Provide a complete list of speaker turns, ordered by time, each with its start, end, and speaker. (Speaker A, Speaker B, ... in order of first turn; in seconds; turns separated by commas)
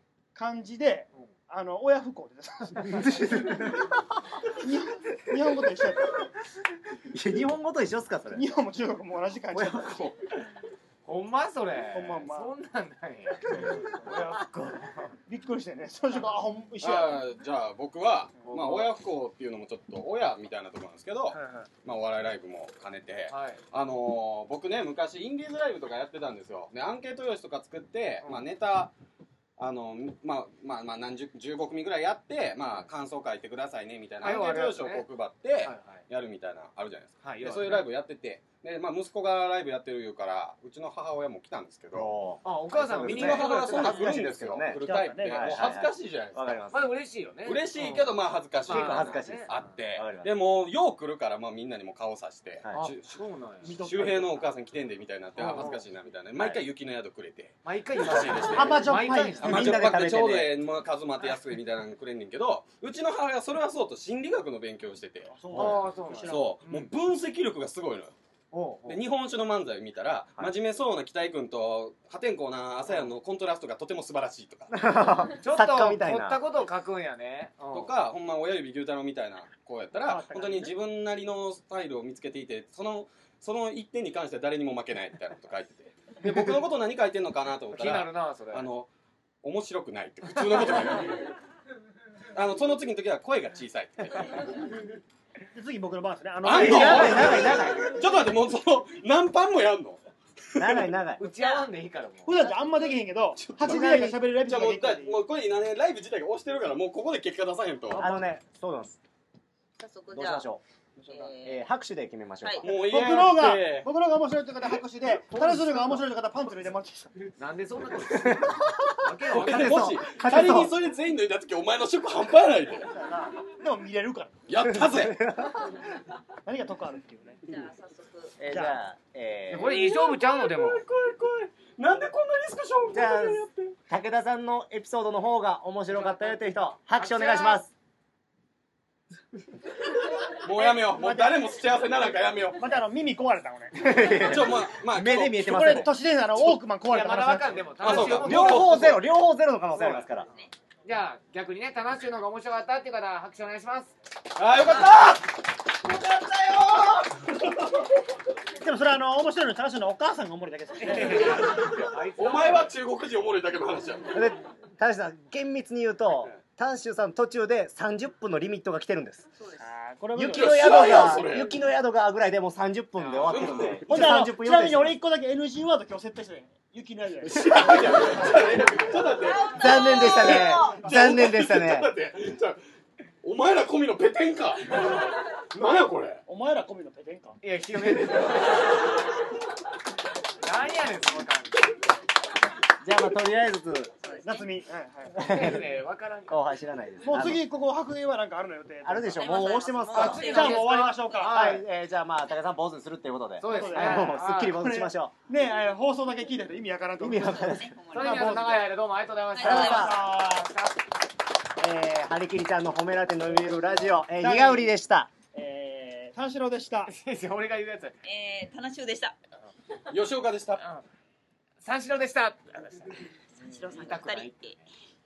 Speaker A: 0.3-3.5, Speaker B: 2.9-4.0, Speaker A: 4.5-6.3, Speaker B: 7.0-8.4, Speaker A: 8.3-10.1, Speaker B: 9.5-10.1, Speaker C: 11.0-15.2, Speaker A: 11.9-12.5, Speaker A: 13.5-14.4, Speaker A: 15.3-17.2, Speaker D: 16.8-28.9, Speaker C: 18.4-18.9, Speaker A: 21.3-21.7, Speaker C: 23.3-23.6, Speaker D: 29.6-42.1, Speaker C: 34.2-35.0, Speaker C: 35.6-36.0, Speaker C: 37.2-37.9, Speaker B: 41.9-46.9, Speaker C: 42.4-43.9, Speaker D: 43.0-46.6, Speaker E: 43.8-44.1, Speaker A: 44.7-45.8, Speaker C: 46.7-49.5, Speaker D: 47.4-65.5, Speaker B: 48.7-50.3, Speaker C: 52.7-53.7, Speaker A: 53.6-54.4, Speaker C: 55.4-55.8, Speaker C: 57.6-59.7, Speaker B: 58.1-58.4, Speaker A: 58.5-59.8, Speaker B: 59.3-60.5, Speaker A: 65.3-66.5, Speaker B: 65.5-65.8, Speaker C: 65.5-66.9, Speaker D: 66.3-68.1, Speaker C: 68.5-69.0, Speaker D: 68.8-74.8, Speaker B: 74.7-76.4, Speaker C: 75.3-77.9, Speaker D: 77.7-88.9, Speaker A: 80.0-80.8, Speaker C: 87.7-88.7, Speaker D: 89.4-91.3, Speaker D: 92.3-94.6, Speaker A: 95.5-97.6, Speaker D: 96.4-100.0, Speaker B: 96.5-97.9, Speaker D: 100.5-100.9, Speaker B: 100.5-101.2, Speaker C: 101.2-102.5, Speaker E: 101.3-101.7, Speaker A: 102.2-105.2, Speaker E: 102.4-102.9, Speaker D: 103.4-108.1, Speaker B: 103.6-104.2, Speaker A: 107.9-108.3, Speaker B: 108.0-109.0, Speaker E: 109.8-110.5, Speaker B: 110.1-110.6, Speaker A: 111.0-111.3, Speaker E: 111.1-111.6, Speaker B: 111.4-112.8, Speaker E: 112.4-112.7, Speaker D: 112.6-113.9, Speaker A: 112.9-117.1, Speaker C: 115.3-116.0, Speaker C: 117.4-120.0, Speaker B: 118.1-120.7, Speaker D: 119.3-122.9, Speaker A: 122.8-124.3, Speaker D: 124.5-125.3, Speaker B: 124.5-125.9, Speaker A: 126.4-127.4, Speaker E: 127.5-128.3, Speaker B: 128.4-129.8, Speaker A: 128.5-128.8, Speaker C: 129.5-130.8, Speaker D: 129.6-133.7, Speaker B: 132.9-137.7, Speaker C: 135.9-137.7, Speaker D: 140.3-142.7, Speaker A: 140.6-141.5, Speaker A: 142.5-143.9, Speaker B: 143.7-145.9, Speaker D: 144.1-145.9, Speaker A: 145.3-148.1, Speaker C: 146.8-148.9, Speaker D: 147.8-149.0, Speaker B: 147.8-150.3, Speaker C: 150.8-153.9, Speaker D: 154.3-157.9, Speaker A: 158.6-161.5, Speaker C: 160.8-162.7, Speaker D: 160.9-164.3, Speaker B: 164.1-169.3, Speaker E: 169.4-169.7, Speaker A: 169.6-171.4, Speaker B: 170.1-174.9, Speaker D: 170.3-171.5, Speaker D: 173.0-174.2, Speaker A: 173.9-178.0, Speaker D: 177.2-182.6, Speaker B: 179.4-181.9, Speaker D: 183.2-186.2, Speaker A: 186.3-187.4, Speaker C: 187.4-188.7, Speaker C: 190.4-191.7, Speaker B: 192.8-193.9, Speaker E: 194.0-194.5, Speaker A: 194.2-195.3, Speaker B: 195.2-195.7, Speaker C: 195.2-196.5, Speaker B: 196.3-197.4, Speaker A: 197.0-201.6, Speaker B: 198.8-200.5, Speaker E: 199.1-201.1, Speaker C: 199.9-201.6, Speaker B: 201.2-205.1, Speaker C: 203.4-204.6, Speaker A: 203.5-208.7, Speaker B: 207.0-207.8, Speaker E: 207.1-208.6, Speaker C: 207.9-210.7, Speaker E: 209.3-210.0, Speaker A: 209.4-210.7, Speaker B: 209.4-210.0, Speaker B: 211.6-215.1, Speaker A: 214.2-214.7, Speaker A: 215.3-216.9, Speaker C: 216.9-217.9, Speaker E: 218.0-219.2, Speaker D: 219.9-220.6, Speaker C: 221.6-223.0, Speaker E: 223.4-224.6, Speaker C: 223.6-224.6